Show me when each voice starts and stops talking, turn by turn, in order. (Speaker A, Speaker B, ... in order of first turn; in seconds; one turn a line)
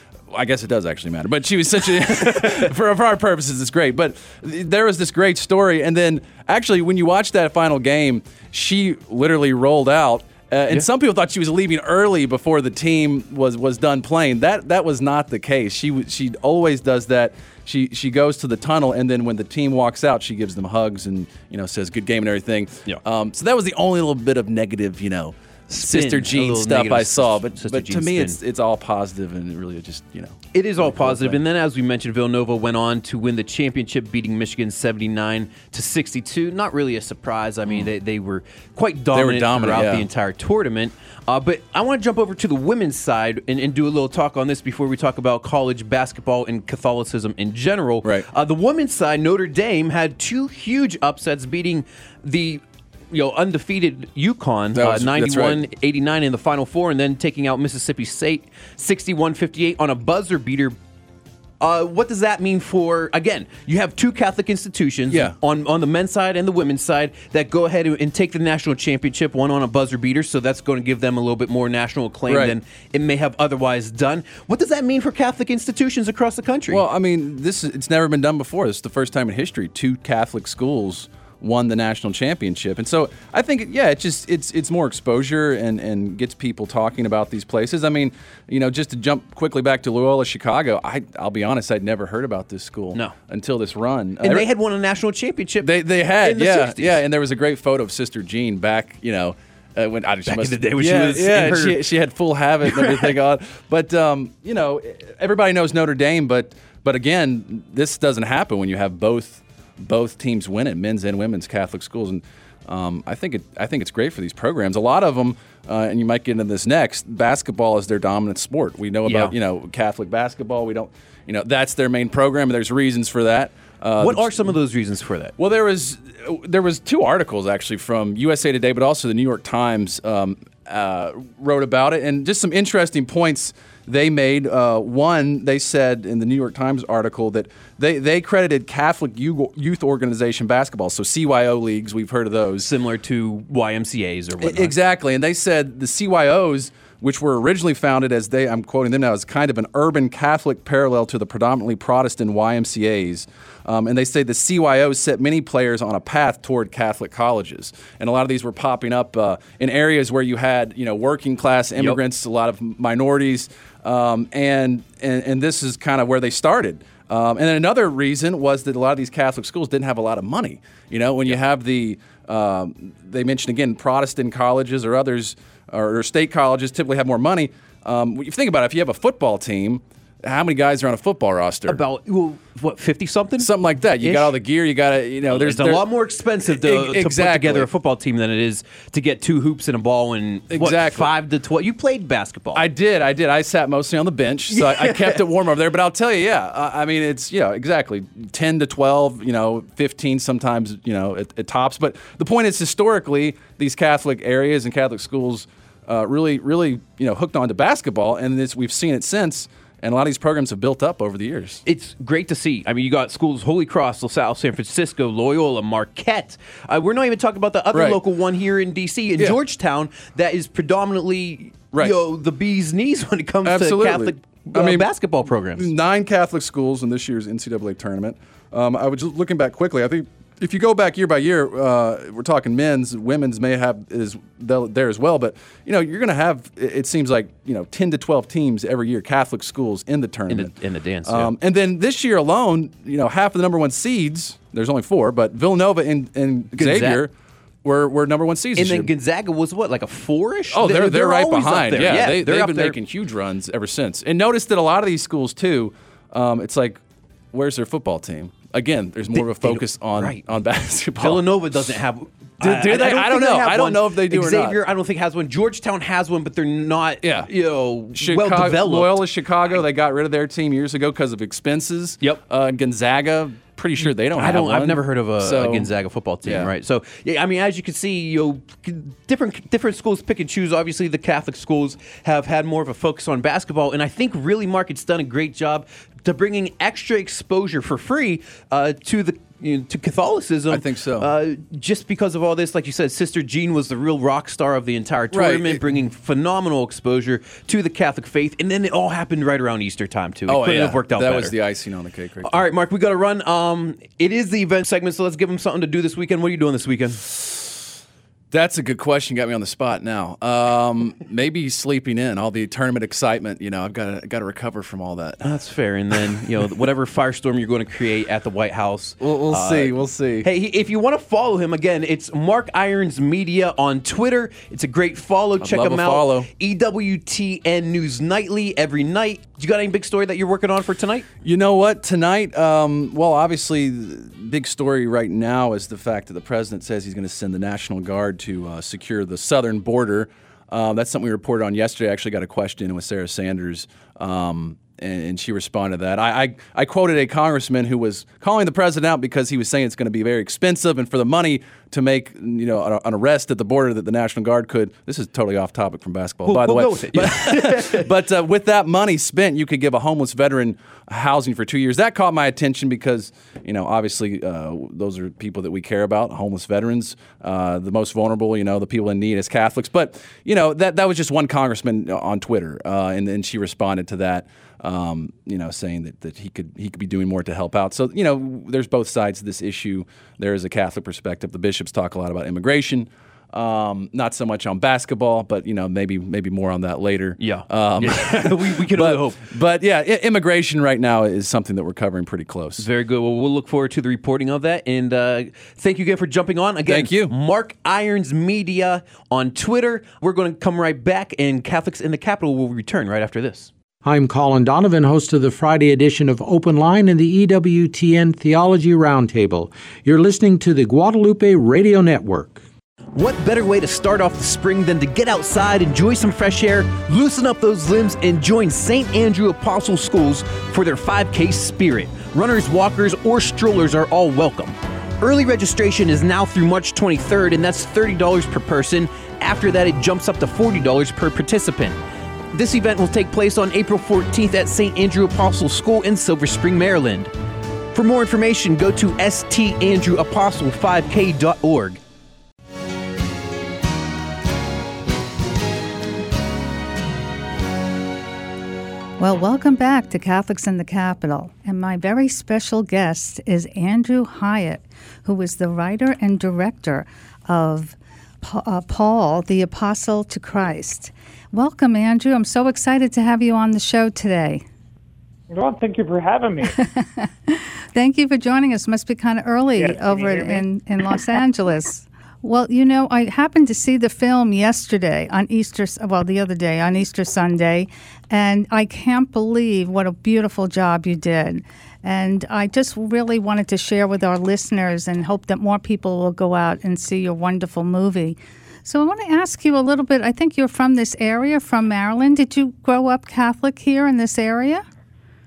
Speaker A: 0.3-31.4
Speaker B: 2.0-2.6
Speaker B: 25.7-28.4
Speaker B: 30.5-60.8
Speaker A: 39.1-40.1
Speaker A: 54.7-55.6
Speaker B: 61.6-76.8
Speaker A: 65.1-65.3
Speaker A: 72.3-72.5
Speaker A: 76.7-94.5
Speaker B: 94.2-97.0
Speaker A: 95.6-124.5
Speaker B: 100.3-101.8
Speaker B: 102.6-103.2
Speaker B: 119.0-119.3
Speaker B: 124.0-125.4
Speaker A: 125.4-142.7
Speaker B: 142.6-144.8
Speaker A: 144.4-181.8
Speaker B: 161.8-162.0
Speaker B: 181.7-184.3
Speaker A: 183.4-185.9
Speaker B: 185.3-192.7
Speaker A: 186.4-187.7
Speaker A: 190.5-191.1
Speaker A: 192.5-211.6
Speaker B: 194.5-195.3
Speaker B: 211.7-225.7
Speaker A: 217.7-218.0
Speaker A: 221.7-222.0
Speaker A: 223.4-224.9
Speaker A: 225.6-240.5
Speaker B: 240.3-241.3
Speaker A: 241.1-247.1
Speaker B: 246.5-247.1
Speaker A: 247.6-248.9
Speaker B: 248.6-252.8
Speaker A: 250.5-256.8
Speaker A: 257.3-261.4
Speaker B: 259.1-260.2
Speaker B: 261.0-269.6
Speaker A: 262.4-264.6
Speaker A: 267.0-267.3
Speaker A: 267.9-275.7
Speaker B: 273.8-301.4
Speaker A: 276.2-276.5
Speaker A: 290.5-291.1
Speaker A: 295.1-295.7
Speaker A: 300.3-302.4
Speaker B: 302.2-307.0
Speaker A: 307.0-307.6
Speaker A: 308.3-315.2
Speaker B: 315.2-331.1
Speaker A: 319.0-320.3
Speaker A: 325.4-326.3
Speaker A: 331.2-392.7
Speaker B: 356.2-357.9
Speaker B: 387.2-389.2
Speaker B: 392.6-403.5
Speaker A: 396.7-397.1
Speaker C: 403.8-412.4
Speaker B: 412.9-431.8
Speaker B: 432.3-437.1
Speaker B: 437.7-441.8
Speaker D: 449.0-464.4
Speaker E: 465.3-466.6
Speaker D: 466.6-494.6
Speaker E: 469.6-470.4